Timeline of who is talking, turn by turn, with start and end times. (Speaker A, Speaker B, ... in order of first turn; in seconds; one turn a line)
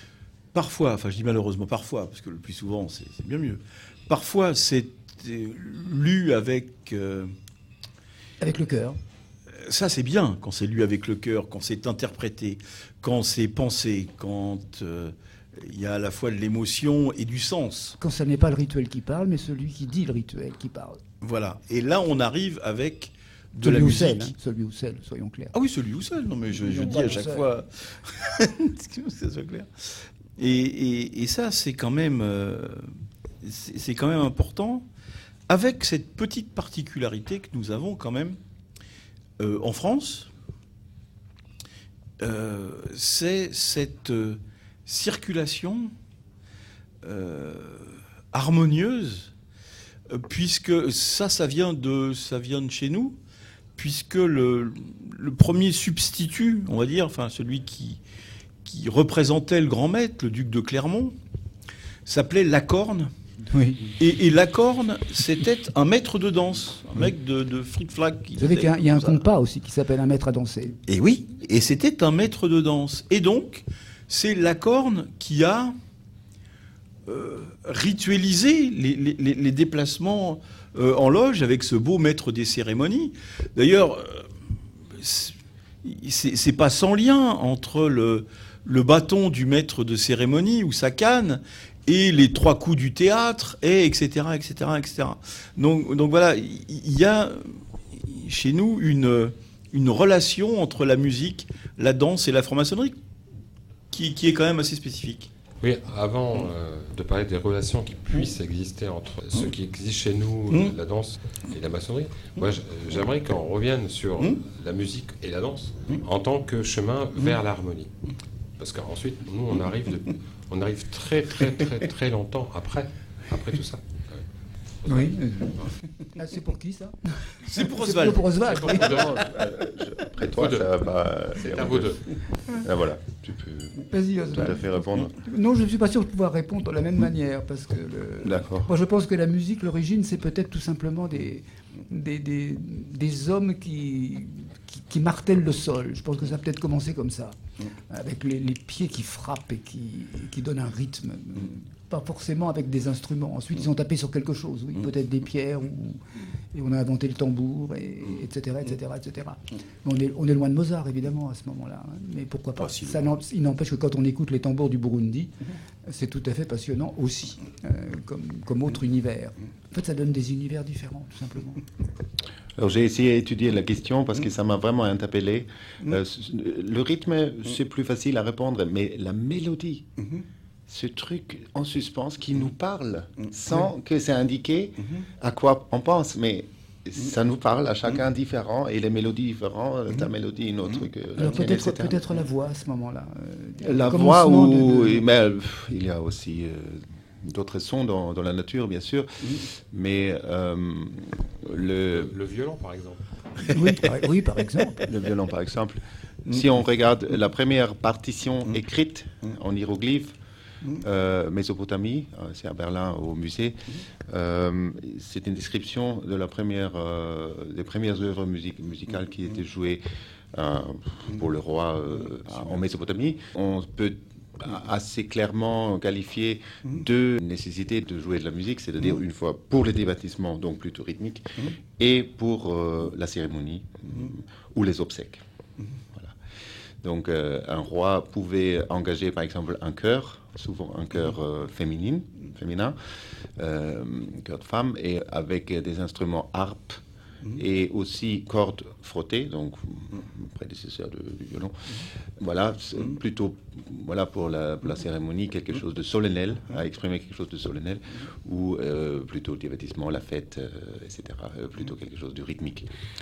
Speaker A: 0.5-7.3
Speaker B: 8.4-9.0
Speaker A: 9.5-18.0
Speaker B: 18.0-21.0
Speaker A: 21.2-24.4
Speaker B: 23.6-25.5
Speaker A: 25.5-34.9
Speaker B: 26.6-27.4
Speaker A: 35.5-38.4
Speaker A: 39.4-40.3
Speaker A: 42.2-45.9
Speaker A: 47.0-49.3
Speaker A: 50.1-53.2
Speaker A: 53.8-58.0
Speaker A: 58.6-61.1
Speaker A: 62.1-63.1
Speaker B: 63.5-63.9
Speaker A: 64.0-69.2
Speaker B: 68.4-70.8
Speaker A: 70.9-75.8
Speaker A: 77.1-84.3
Speaker A: 84.8-103.0
Speaker A: 103.9-105.3
Speaker C: 105.6-117.9
Speaker C: 118.6-124.2
Speaker C: 124.8-125.7
Speaker B: 124.9-129.1
Speaker A: 127.4-128.7
Speaker C: 128.4-129.4
Speaker D: 128.9-132.0
Speaker C: 130.3-130.7
Speaker C: 131.4-132.1
Speaker D: 132.5-135.1
Speaker B: 133.8-147.4
Speaker D: 138.2-138.7
Speaker B: 147.9-165.3
Speaker B: 165.9-171.6
Speaker D: 172.6-179.9
Speaker D: 180.7-192.0
Speaker B: 191.2-195.0
Speaker D: 193.6-202.1
Speaker C: 202.0-203.0
Speaker B: 203.5-204.9
Speaker D: 204.8-210.1
Speaker D: 210.8-219.8
Speaker D: 220.3-235.2
Speaker D: 236.8-242.8
Speaker D: 243.4-262.7